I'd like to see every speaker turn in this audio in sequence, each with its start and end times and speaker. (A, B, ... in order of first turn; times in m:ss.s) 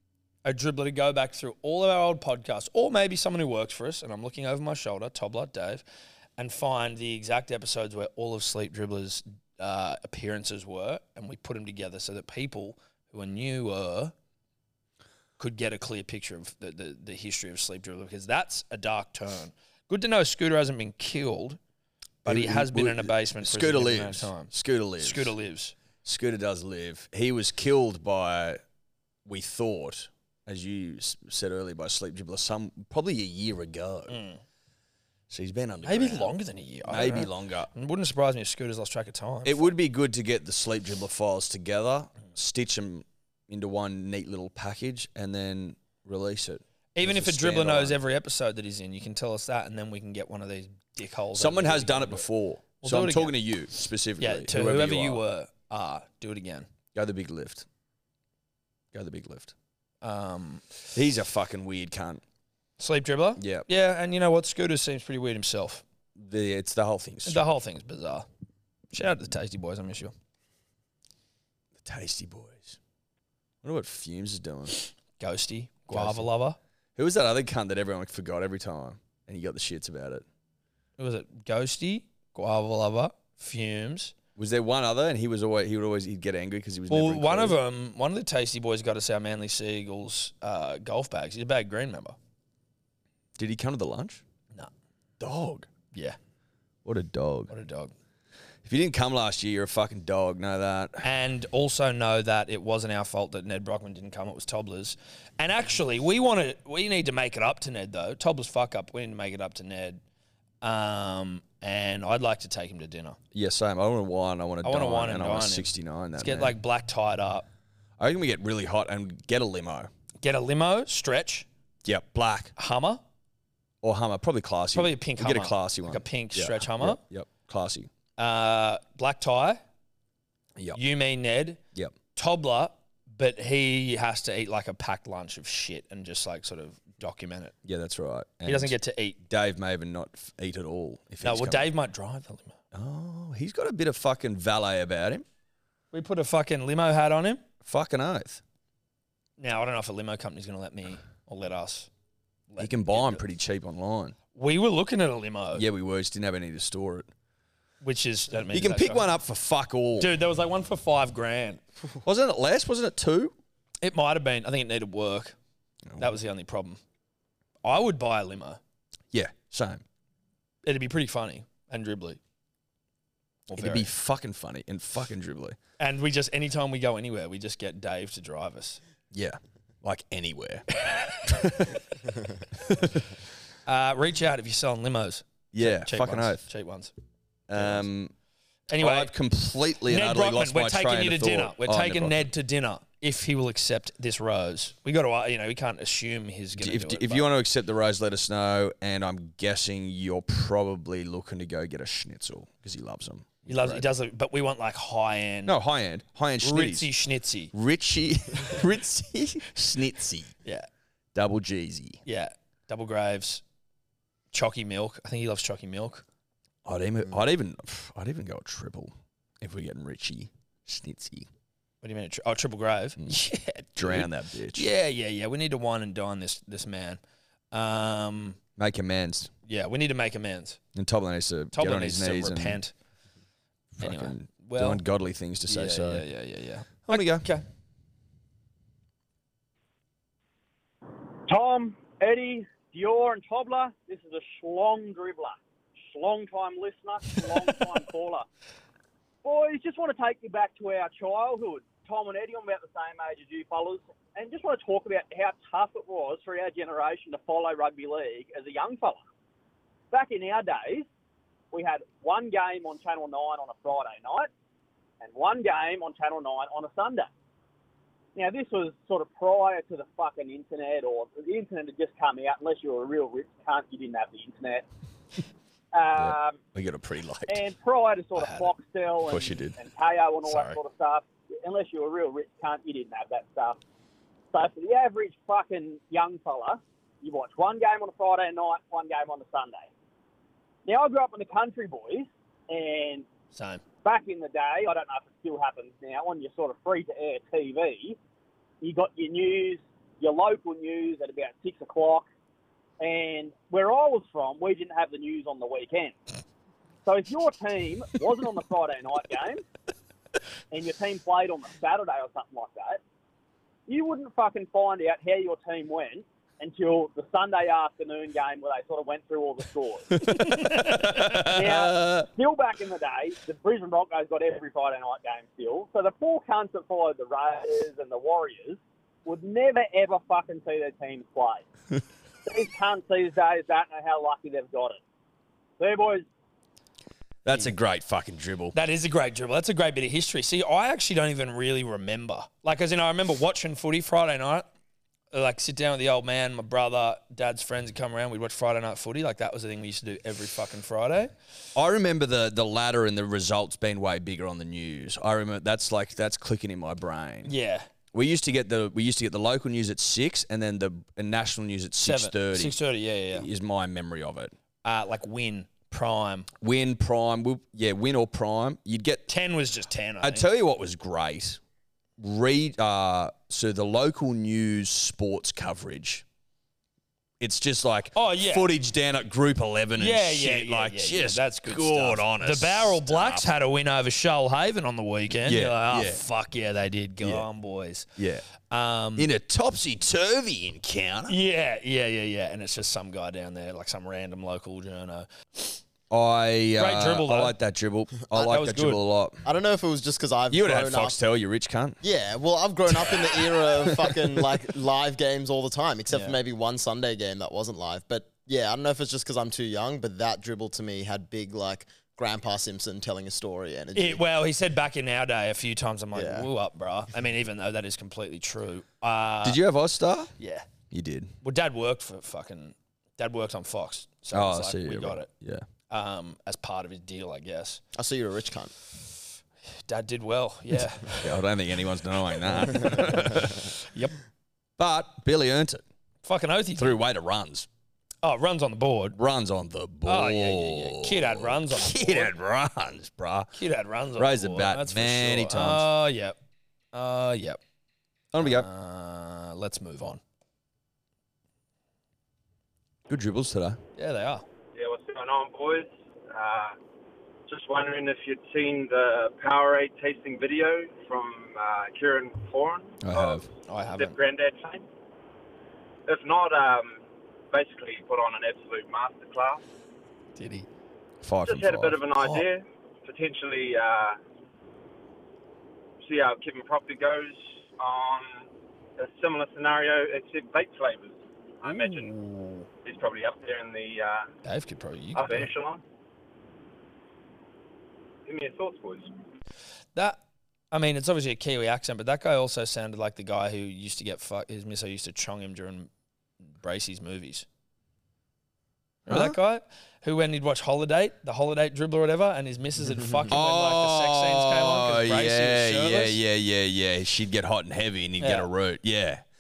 0:00.4-0:05.8 A
0:06.4-0:14.1 A
0:15.4-0:21.6 A
0:22.2-0:25.7 A
0:22.2-0:25.4 B
0:26.0-0:28.6 B
0:29.2-0:34.2 B
0:34.1-0:34.4 A
0:35.3-0:36.3 B
0:35.8-0:39.7 A
0:36.8-0:37.7 B
0:39.4-0:48.0 B
0:47.0-0:52.3 A
0:51.3-0:55.2 B
0:52.8-0:53.4 A
0:54.2-0:56.7 A
0:56.9-0:57.7 B
0:58.9-0:59.5 B
1:00.0-1:00.7 A
1:00.9-1:02.2 B
1:02.8-1:05.8 A
1:03.4-1:03.7 B
1:06.2-1:07.4 B
1:07.3-1:08.3 A
1:08.9-1:10.1 A
1:11.8-1:12.8 B
1:13.6-1:14.8 B
1:15.2-1:16.6 A
1:15.9-1:16.3 B
1:17.0-1:20.2 B
1:21.0-1:24.1 A
1:24.4-1:27.6 B
1:26.9-1:32.2 A
1:33.4-1:34.2 B
1:35.2-1:35.7 B
1:35.9-1:36.2 A
1:36.8-1:37.5 B
1:37.5-1:37.9 A
1:38.6-1:41.0 B
1:41.0-1:50.0 A
1:50.6-1:53.2 A
1:53.3-1:56.6 B
1:54.6-1:57.5 A
1:58.0-1:59.9 B
2:00.2-2:01.5 A
2:01.8-2:02.5 B
2:02.6-2:03.0 A
2:03.8-2:07.9 B
2:04.7-2:07.0 A
2:08.2-2:09.6 A
2:10.8-2:11.6 A
2:12.2-2:17.5 A
2:17.6-2:21.7 B
2:18.5-2:19.2 A
2:21.2-2:22.6 A
2:22.7-2:25.2 B
2:25.9-2:27.4 A
2:27.6-2:28.4 B
2:29.4-2:31.9 A
2:32.5-2:33.2 A
2:32.6-2:34.2 B
2:34.3-2:35.6 A
2:35.6-2:37.1 B
2:37.8-2:39.1 A
2:38.5-2:40.2 B
2:40.0-2:41.6 A
2:42.0-2:43.4 B
2:43.8-2:45.4 A
2:46.0-2:46.8 A
2:47.6-2:48.6 A
2:49.1-2:49.8 B
2:50.6-2:52.2 A
2:53.5-2:53.9 A
2:53.6-2:55.6 B
2:55.8-2:58.8 A
2:59.1-3:01.8 B
3:02.6-3:03.1 B
3:03.7-3:06.9 A
3:05.5-3:06.4 B
3:07.5-3:08.1 B
3:07.6-3:07.9 A
3:08.7-3:09.1 A
3:08.8-3:12.2 B
3:09.9-3:17.3 A
3:16.6-3:23.9 B
3:23.5-3:25.6 A
3:25.5-3:26.9 B
3:26.4-3:27.5 A
3:27.5-3:30.4 B
3:31.2-3:32.0 B
3:32.0-3:33.4 A
3:34.3-3:36.0 A
3:36.6-3:41.3 B
3:41.8-3:47.0 A
3:43.8-3:44.7 B
3:47.5-3:48.4 A
3:48.6-3:49.3 B
3:49.5-3:50.6 A
3:50.8-3:52.6 B
3:51.5-3:52.7 A
3:53.8-3:54.8 A
3:53.8-3:56.1 B
3:55.5-3:57.4 A
3:56.8-3:57.3 B
4:01.3-4:08.3 C
4:09.2-4:19.0 C
4:19.9-4:20.9 C
4:21.5-4:24.3 C
4:25.0-4:27.1 C
4:28.2-4:34.7 C
4:35.7-4:36.4 C
4:36.0-4:37.4 B
4:37.3-4:43.6 C
4:38.2-4:38.5 A
4:39.0-4:39.6 B
4:40.3-4:40.6 A
4:44.3-4:49.7 C
4:50.7-4:53.1 C
4:53.3-4:53.6 A
4:53.8-4:58.0 C
4:58.6-5:02.1 C
5:02.8-5:06.0 C
5:06.8-5:09.4 C
5:10.5-5:12.8 C
5:13.7-5:19.9 C
5:20.0-5:22.1 B
5:20.3-5:21.3 A
5:21.3-5:31.4 C
5:32.2-5:34.8 C
5:35.6-5:36.1 C
5:37.2-5:38.6 B
5:38.5-5:44.5 A
5:45.1-5:51.1 A
5:51.6-5:57.3 B
5:57.2-5:57.7 A
5:57.9-6:02.6 B
6:01.8-6:03.3 A
6:03.1-6:04.3 B
6:04.6-6:06.3 A
6:06.4-6:09.1 B
6:09.1-6:10.2 A
6:10.0-6:11.4 B
6:12.0-6:16.0 B
6:17.2-6:23.3 B
6:18.0-6:18.5 A
6:19.8-6:27.9 A
6:25.2-6:26.0 B
6:27.0-6:27.3 B
6:28.0-6:28.3 B
6:28.5-6:29.1 A
6:29.0-6:31.2 B
6:31.1-6:35.1 A
6:35.9-6:39.2 B
6:36.6-6:37.4 A
6:38.1-6:38.8 A
6:39.2-6:41.0 D
6:40.3-6:41.8 B
6:41.8-6:54.0 D
6:45.9-6:46.2 A
6:53.8-6:59.4 A
6:55.9-6:56.3 D
6:59.2-7:00.1 B
7:00.2-7:00.5 A
7:00.7-7:01.1 B
7:01.2-7:05.1 A
7:04.1-7:05.5 B
7:05.7-7:07.6 A
7:07.8-7:08.5 D
7:09.6-7:11.1 A
7:11.0-7:13.6 B
7:12.3-7:14.0 A
7:14.6-7:15.6 B
7:16.0-7:16.8 A
7:16.6-7:17.5 B
7:18.0-7:19.0 A
7:18.9-7:23.3 B
7:19.8-7:22.1 A
7:23.3-7:26.2 A
7:24.0-7:25.7 B
7:26.7-7:27.4 A
7:28.1-7:28.5 B
7:28.2-7:30.0 A
7:32.9-7:33.6 B
7:33.8-7:34.2 A
7:34.6-7:36.6 E
7:37.3-7:44.6 E
7:42.8-7:43.3 B
7:43.5-7:44.0 A
7:45.9-7:49.4 E
7:50.2-7:50.5 A
7:51.0-7:51.8 B
7:51.2-7:54.0 E
7:51.9-7:52.3 A
7:55.8-8:01.9 E
8:01.4-8:02.5 A
8:02.6-8:04.1 E
8:04.2-8:05.3 A
8:05.0-8:05.6 E
8:08.1-8:08.9 E
8:09.8-8:10.0 A
8:10.5-8:15.7 A
8:16.4-8:17.2 A
8:18.9-8:26.0 A
8:18.9-8:19.2 B
8:23.1-8:29.0 B
8:28.0-8:28.3 A